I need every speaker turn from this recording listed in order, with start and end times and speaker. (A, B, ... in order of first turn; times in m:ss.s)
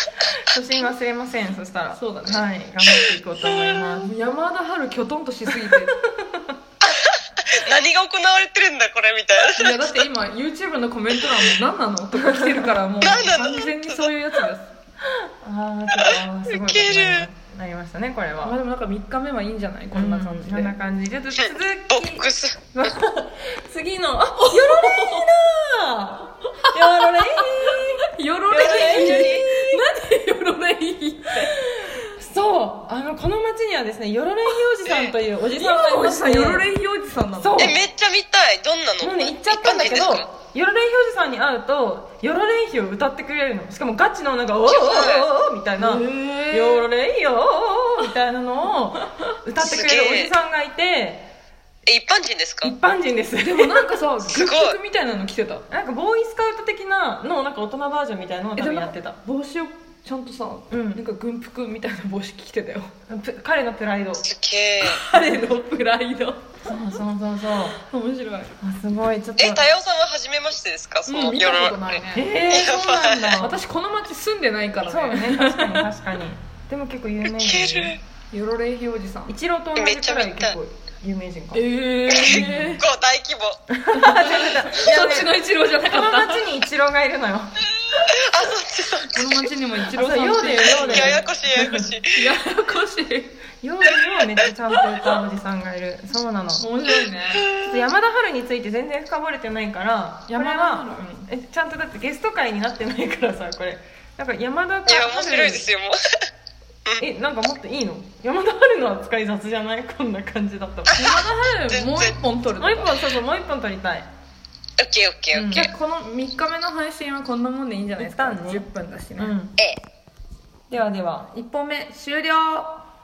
0:00.5-0:04.1 A
0:01.9-0:02.5 B
0:04.0-0:06.0 B
0:07.0-0:09.8 C
0:09.5-0:14.7 B
0:12.1-0:12.8 A
0:13.0-0:14.1 C
0:15.4-0:18.5 A
0:16.0-0:17.3 C
0:18.4-0:20.7 B
0:19.9-0:29.8 A
0:21.4-0:22.6 C
0:24.4-0:25.2 B
0:26.9-0:31.5 B
0:28.6-0:29.4 C
0:31.4-0:36.6 A
0:34.8-0:35.1 C
0:35.5-0:37.8 B
0:37.4-0:37.8 A
0:37.6-0:40.3 C
0:39.0-0:51.3 A
0:44.6-0:45.3 C
0:45.8-0:46.8 B
0:49.6-0:50.3 C
0:51.8-0:52.8 C
0:52.6-0:53.8 A
0:53.4-0:55.6 B
0:54.2-0:54.8 C
0:55.7-0:59.2 A
0:58.6-1:02.9 B
1:00.7-1:01.0 A
1:03.1-1:04.3 A
1:04.2-1:05.0 C
1:04.8-1:06.4 B
1:06.6-1:07.8 A
1:07.7-1:08.5 B
1:08.6-1:09.6 A
1:09.4-1:13.3 C
1:11.1-1:12.3 B
1:12.1-1:13.6 A
1:13.4-1:15.8 B
1:14.8-1:18.0 A
1:17.4-1:18.0 C
1:18.3-1:19.3 B
1:19.2-1:22.7 A
1:19.8-1:20.6 C
1:21.5-1:22.8 B
1:22.1-1:23.6 C
1:23.8-1:27.5 A
1:23.9-1:26.4 B
1:28.0-1:29.3 C
1:29.1-1:31.2 B
1:29.9-1:31.9 A
1:30.8-1:32.1 C
1:32.1-1:33.4 B
1:33.6-1:36.6 A
1:36.6-1:37.5 B
1:37.5-1:45.7 A
1:40.3-1:41.3 B
1:44.9-1:46.0 C
1:47.0-1:51.1 A
1:50.9-1:52.9 B
1:51.6-1:52.2 C
1:52.6-1:54.1 A
1:54.8-1:55.6 C
1:55.3-1:55.7 A
1:55.5-1:59.4 B
1:58.0-1:58.6 A
1:59.2-1:59.5 A
2:00.7-2:01.3 A
2:01.3-2:02.8 B